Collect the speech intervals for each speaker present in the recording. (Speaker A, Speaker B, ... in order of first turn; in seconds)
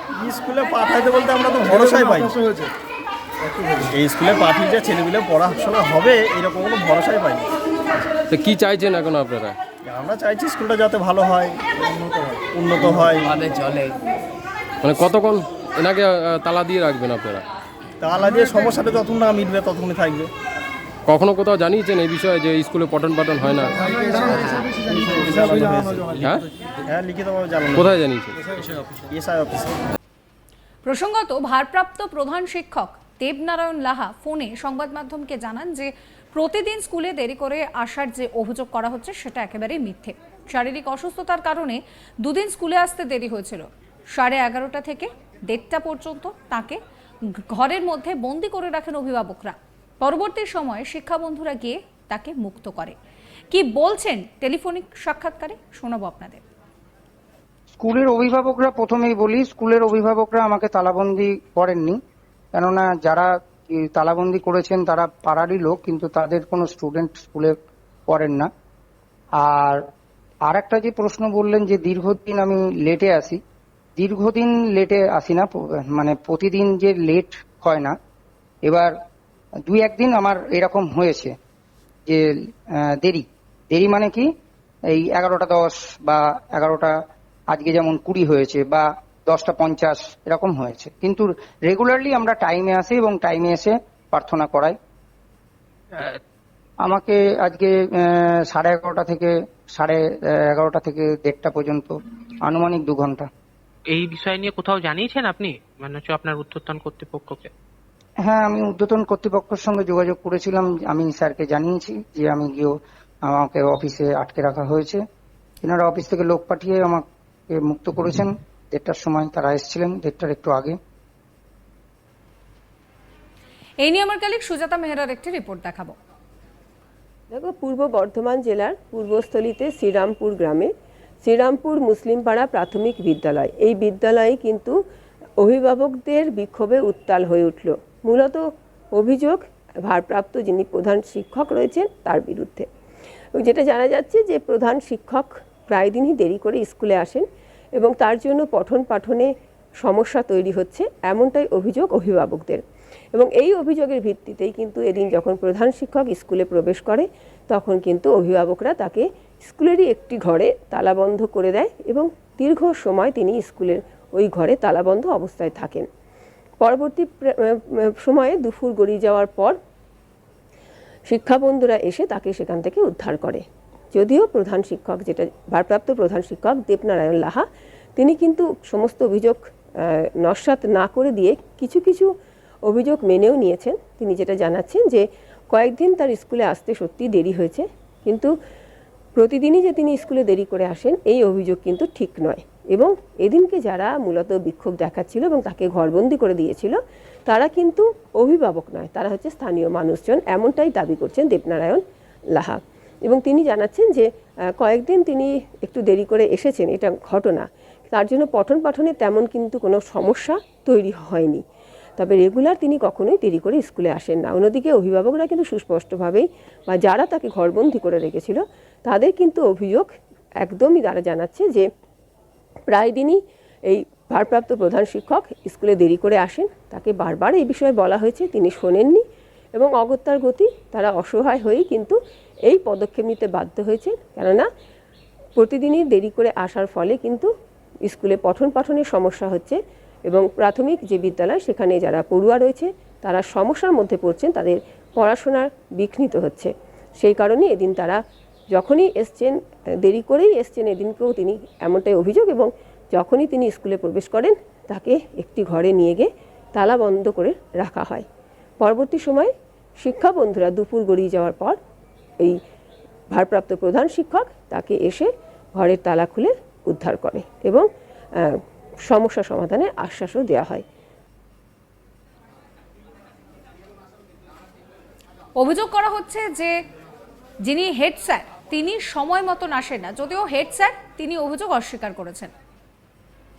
Speaker A: 0.2-2.6, 3.7-7.5, 9.8-11.6, 12.5-13.4, 18.0-20.3, 24.2-26.2, 26.9-27.9, 28.9-29.7
Speaker B: 8.3-9.6, 14.8-17.4, 21.1-24.1, 26.2-26.4, 27.7-28.5
Speaker C: 30.8-46.8, 47.4-53.0, 53.5-56.4, 123.8-125.9, 275.4-276.5, 277.4-282.3
Speaker D: 57.8-62.0, 62.5-67.5, 68.1-68.5, 69.4-69.8, 70.5-73.4, 74.0-77.9, 78.7-78.9, 79.7-81.3, 83.0-84.3, 84.9-86.9, 87.5-94.7, 96.8-103.3, 108.2-112.7, 113.2-115.0, 115.6-120.8
Speaker E: 103.9-107.5
Speaker F: 127.3-130.7, 131.2-134.8, 135.4-142.7, 143.3-147.2, 147.8-149.3, 149.8-152.6, 153.1-165.8, 166.6-169.6, 171.1-177.4, 178.0-182.1, 182.6-188.3, 189.2-201.8, 202.3-204.1, 204.6-211.4, 212.0-219.9, 220.4-221.7, 222.7-229.0, 229.6-231.9, 232.5-234.4, 235.4-237.3, 237.8-248.0, 248.5-258.0, 258.6-261.6, 263.1-267.6, 268.2-270.6